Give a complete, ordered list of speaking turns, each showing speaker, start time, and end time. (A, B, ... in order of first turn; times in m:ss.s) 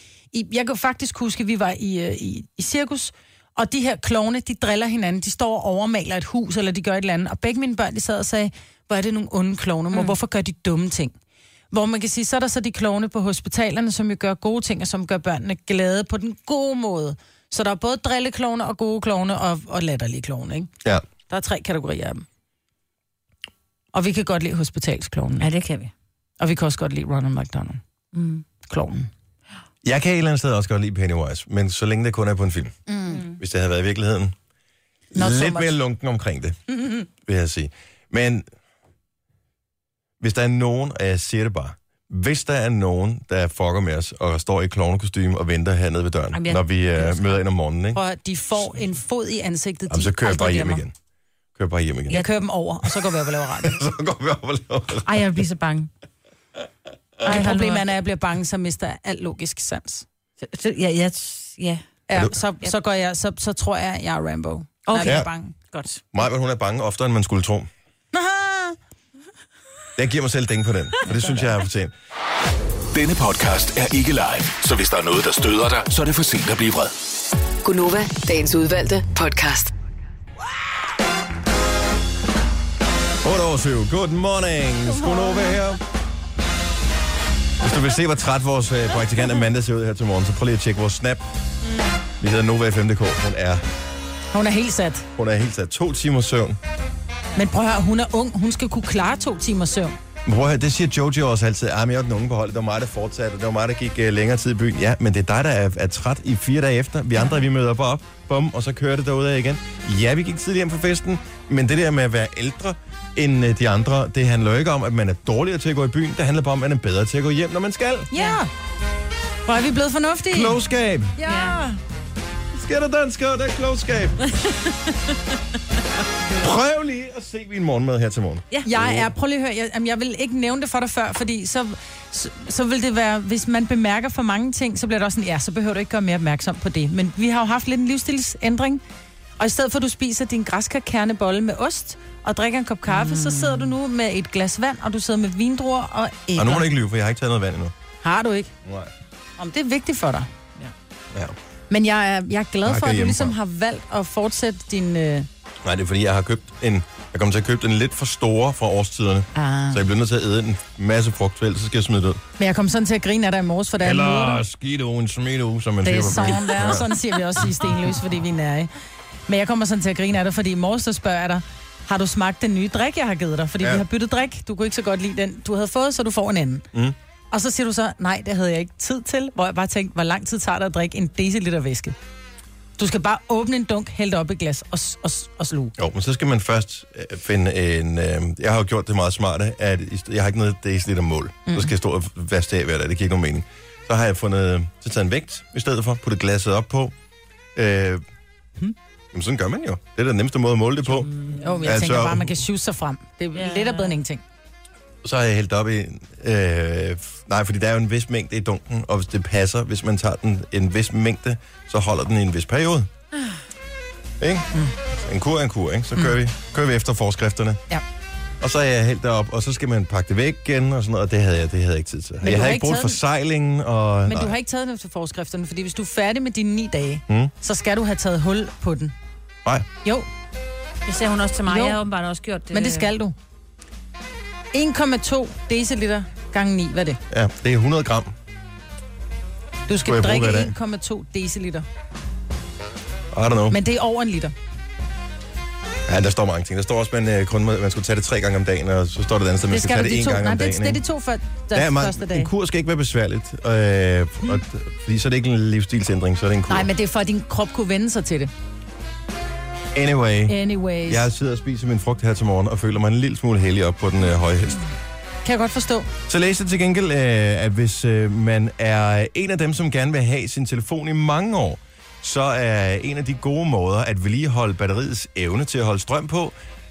0:00.3-0:11.2 A
0:11.7-0:20.7 A
0:21.3-0:22.2 A
0:23.9-0:25.5 A
0:25.4-0:25.9 B
0:26.4-0:27.8 A
0:28.1-0:28.4 B
0:28.6-0:29.1 A
0:29.8-0:34.4 C
0:32.9-0:33.2 A
0:33.1-0:33.4 B
0:35.1-0:35.7 A
0:35.1-0:36.6 C
0:37.2-0:38.5 C
0:40.2-0:48.0 C
0:46.3-0:47.4 B
0:47.9-0:50.8 A
0:49.9-0:50.9 C
0:51.6-0:52.3 C
0:52.1-0:53.8 A
0:53.5-0:55.2 C
0:55.0-0:55.9 B
0:57.2-1:00.1 A
0:57.2-0:57.8 B
1:00.4-1:01.8 B
1:02.1-1:05.6 A
1:04.9-1:06.0 B
1:05.0-1:05.3 C
1:06.1-1:07.7 C
1:08.1-1:08.8 A
1:10.0-1:11.9 C
1:12.9-1:16.9 D
1:17.6-1:19.7 E
1:23.2-1:25.8 C
1:27.6-1:31.2 C
1:32.2-1:33.6 C
1:34.3-1:35.1 A
1:35.2-1:36.6 C
1:37.4-1:40.0 A
1:40.3-1:58.1 C
1:58.1-1:58.5 A
1:59.5-2:00.6 A
2:00.3-2:01.2 C
2:01.2-2:01.8 A
2:01.2-2:01.6 B
2:02.5-2:04.2 C
2:04.3-2:05.0 B
2:06.4-2:09.1 C
2:08.6-2:18.8 A
2:19.4-2:26.7 A
2:22.9-2:23.7 B
2:26.4-2:27.7 C
2:28.0-2:28.5 A
2:28.6-2:28.9 C
2:29.4-2:30.3 A
2:31.7-2:35.3 A
2:32.6-2:33.4 C
2:35.6-2:42.2 C
2:39.4-2:39.8 A
2:42.4-2:44.4 A
2:43.8-2:46.8 C
2:45.8-2:48.7 A
2:49.3-2:56.7 A
2:57.3-3:02.0 A
3:02.8-3:05.7 A
3:05.8-3:16.9 C
3:11.5-3:11.7 A
3:17.6-3:18.0 C
3:19.1-3:21.1 C
3:20.9-3:21.7 B
3:21.3-3:24.2 A
3:21.6-3:22.4 C
3:23.4-3:24.0 B
3:25.0-3:32.9 C
3:34.2-3:34.5 C
3:35.0-3:37.6 C
3:38.4-3:44.4 C
3:42.2-3:43.0 A
3:44.1-3:48.9 A
3:50.9-3:52.9 B
3:51.5-3:51.8 A
3:52.5-3:53.2 A
3:54.5-3:57.0 A
3:57.1-3:58.1 C
3:59.7-4:01.7 A
3:59.8-4:00.5 C
4:03.1-4:03.6 C
4:03.5-4:04.3 A
4:05.9-4:10.8 C
4:09.5-4:12.3 A
4:11.5-4:16.7 C
4:16.5-4:18.3 A
4:19.7-4:24.6 C
4:20.3-4:21.0 A
4:25.2-4:25.9 A
4:26.1-4:36.4 C